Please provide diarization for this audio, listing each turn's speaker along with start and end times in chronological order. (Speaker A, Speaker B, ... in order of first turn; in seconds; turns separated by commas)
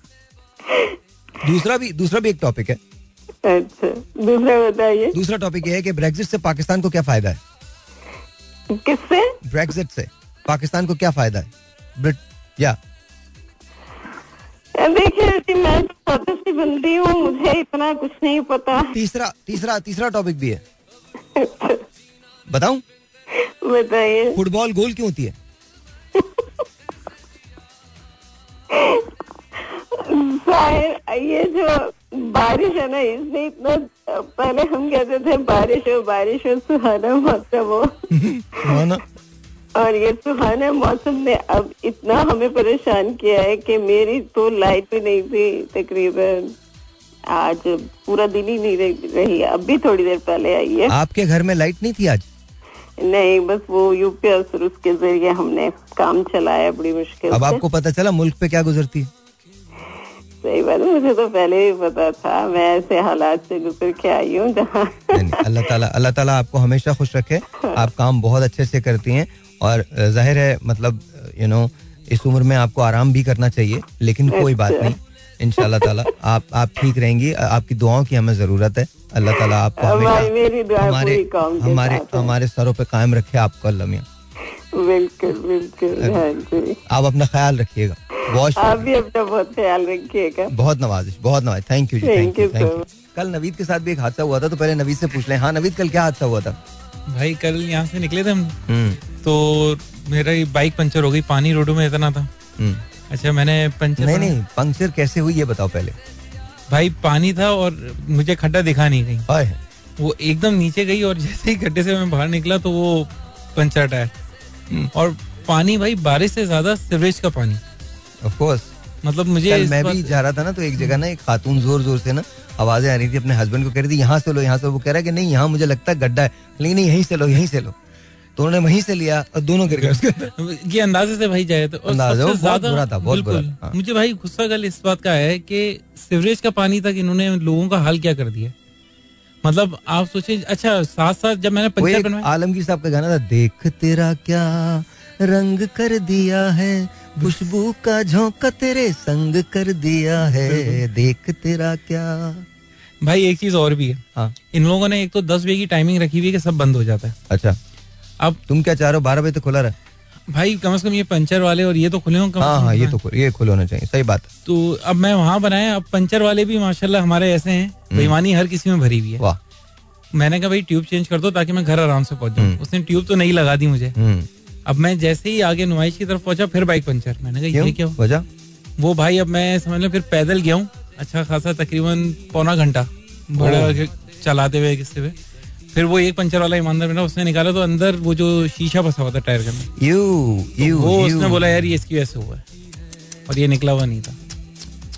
Speaker A: 0.7-1.0, Speaker B: 1.4-2.8, Speaker A: 3.4-5.2, Speaker B: 5.1-7.4, Speaker A: 8.7-9.3, Speaker B: 9.4-12.8, Speaker A: 14.8-19.0, Speaker B: 18.8-20.6, Speaker A: 21.4-21.8, Speaker B: 22.5-22.8, Speaker A: 23.3-24.4, Speaker B: 24.4-25.4, Speaker A: 26.2-26.5, Speaker A: 28.7-38.1, Speaker B: 38.1-39.0, Speaker A: 39.8-46.6, Speaker A: 47.3-51.0, Speaker B: 50.9-52.3, Speaker A: 53.0-57.6, Speaker B: 57.3-59.1, Speaker A: 60.4-65.6, Speaker B: 65.1-84.1, Speaker A: 74.3-75.0, Speaker A: 75.6-76.1, Speaker A: 79.3-82.3, Speaker A: 84.4-86.8, Speaker B: 86.9-88.9, Speaker A: 88.3-90.5, Speaker B: 90.5-96.6, Speaker A: 92.0-92.8, Speaker C: 97.1-98.6, Speaker B: 98.7-99.0, Speaker C: 99.1-102.3, Speaker C: 103.1-104.4, Speaker B: 104.0-106.0, Speaker C: 106.7-109.2, Speaker B: 109.3-109.6, Speaker C: 110.0-114.1, Speaker C: 114.9-117.6, Speaker B: 118.2-118.7, Speaker C: 119.0-120.1, Speaker B: 119.5-127.8, Speaker B: 128.4-130.3, Speaker C: 129.7-138.5, Speaker B: 131.9-133.8, Speaker C: 139.4-142.3, Speaker B: 141.8-152.5, Speaker C: 150.3-150.8, Speaker C: 153.0-157.2, Speaker B: 157.3-157.6, Speaker B: 158.5-159.8, Speaker C: 160.3-163.0, Speaker B: 162.4-164.3, Speaker C: 164.5-169.2, Speaker B: 167.9-168.2, Speaker C: 170.1-174.0, Speaker B: 172.4-172.6, Speaker B: 174.0-174.3, Speaker C: 174.7-178.0, Speaker B: 177.5-178.3, Speaker C: 178.8-185.2, Speaker B: 183.4-183.8, Speaker C: 185.7-189.7, Speaker B: 189.8-191.4, Speaker C: 190.6-192.4, Speaker C: 193.3-194.2